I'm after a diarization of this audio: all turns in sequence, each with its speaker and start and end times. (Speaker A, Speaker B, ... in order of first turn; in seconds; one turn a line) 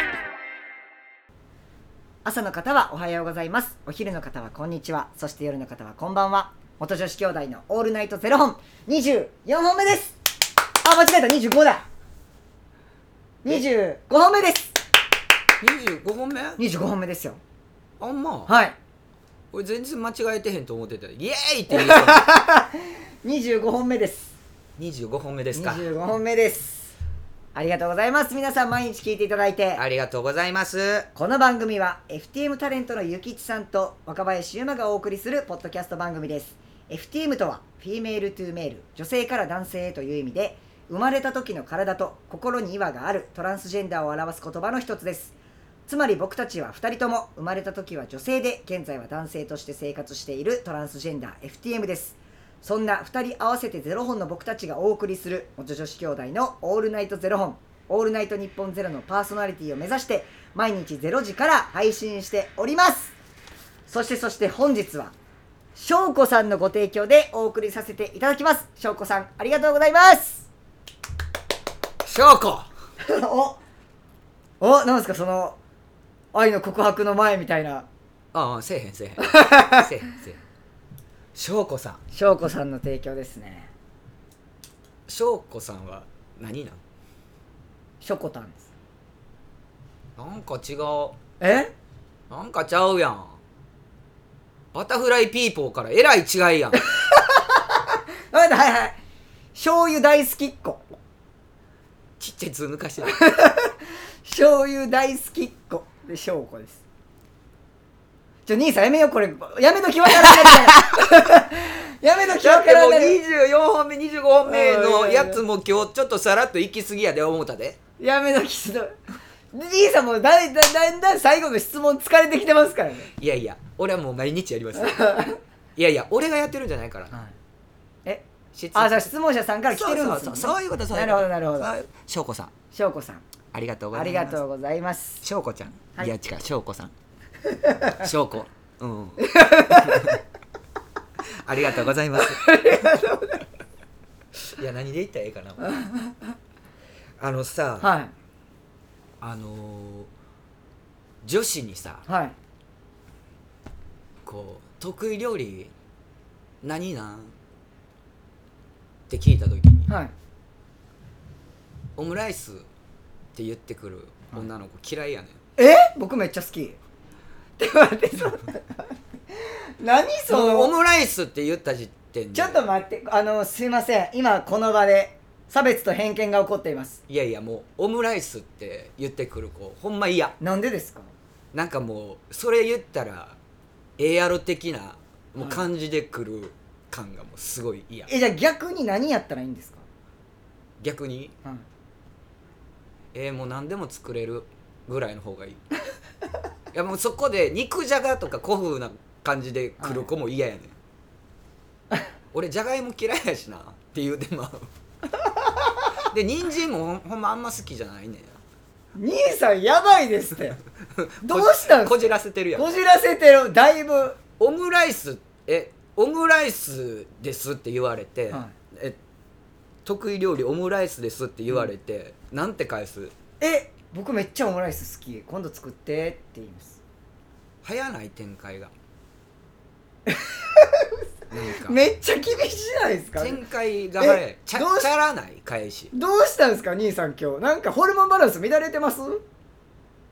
Speaker A: 2.2-10.2
Speaker A: 10.8-11.9
Speaker A: 13.4-14.7
Speaker B: 15.6-16.6
Speaker A: 16.6-17.4
Speaker B: 18.0-18.5
Speaker A: 18.5-18.8
Speaker B: 19.5-22.3
Speaker A: 21.7-24.3
Speaker B: 24.8-25.9
Speaker A: 25.6-26.9
Speaker A: 27.6-29.8
Speaker B: 29.8-31.1
Speaker A: 31.1-45.4
Speaker A: 45.9-63.1
Speaker A: 63.9-65.1
Speaker A: 65.8-70.5
Speaker B: 72.0-72.7
Speaker A: 73.0-73.6
Speaker A: 74.6-75.6
Speaker A: 76.3-77.9
Speaker B: 78.3-80.4
Speaker A: 79.2-79.8
Speaker B: 81.3-82.0
Speaker A: 82.1-83.7
Speaker B: 85.1-86.8
Speaker A: 88.0-88.7
Speaker B: 90.2-91.2
Speaker A: 91.4-91.7
Speaker B: 92.3-93.4
Speaker B: 94.7-96.8
Speaker A: 96.7-97.6
Speaker A: 98.3-99.0
Speaker A: 99.5-101.0
Speaker B: 102.2-103.2
Speaker A: 103.0-106.8
Speaker A: 108.5-113.2
Speaker B: 112.3-117.8
Speaker A: 114.5-115.4
Speaker A: 118.0-119.0
Speaker A: 119.5-123.1
Speaker B: 123.2-125.2
Speaker A: 124.8-125.4
Speaker B: 125.8-127.1
Speaker A: 128.1-131.7
Speaker B: 128.6-129.1
Speaker B: 129.7-132.5
Speaker A: 132.7-133.2
Speaker B: 133.5-134.4
Speaker A: 133.9-135.2
Speaker B: 135.2-136.9
Speaker A: 137.5-138.1
Speaker B: 137.9-140.2
Speaker A: 139.2-140.2
Speaker B: 141.4-142.4
Speaker A: 142.2-143.4
Speaker B: 144.5-145.7
Speaker A: 145.7-146.1
Speaker B: 147.2-147.9
Speaker A: 147.8-148.1
Speaker B: 149.2-150.1
Speaker B: 151.2-152.1
Speaker A: 152.1-152.3
Speaker B: 154.2-155.7
Speaker B: 156.6-157.3
Speaker B: 159.1-159.9
Speaker A: 159.9-160.1
Speaker B: 162.0-162.7
Speaker B: 163.3-165.4
Speaker A: 165.6-166.8
Speaker A: 167.6-170.7
Speaker B: 170.3-172.6
Speaker A: 172.3-177.0
Speaker B: 177.1-180.3
Speaker A: 180.4-181.1
Speaker B: 181.5-183.4
Speaker B: 184.0-188.1
Speaker A: 188.1-189.8
Speaker B: 190.8-191.3
Speaker B: 193.1-195.6
Speaker B: 196.7-200.7
Speaker A: 199.8-200.1
Speaker B: 202.3-204.7
Speaker B: 206.1-208.3
Speaker A: 209.0-210.6
Speaker B: 211.0-212.7
Speaker A: 211.2-214.2
Speaker B: 214.4-219.0
Speaker B: 219.8-223.1
Speaker A: 223.4-226.8
Speaker B: 227.6-228.7
Speaker A: 230.1-233.4
Speaker B: 231.3-231.8
Speaker B: 233.2-235.9
Speaker A: 234.0-234.9
Speaker A: 235.9-239.2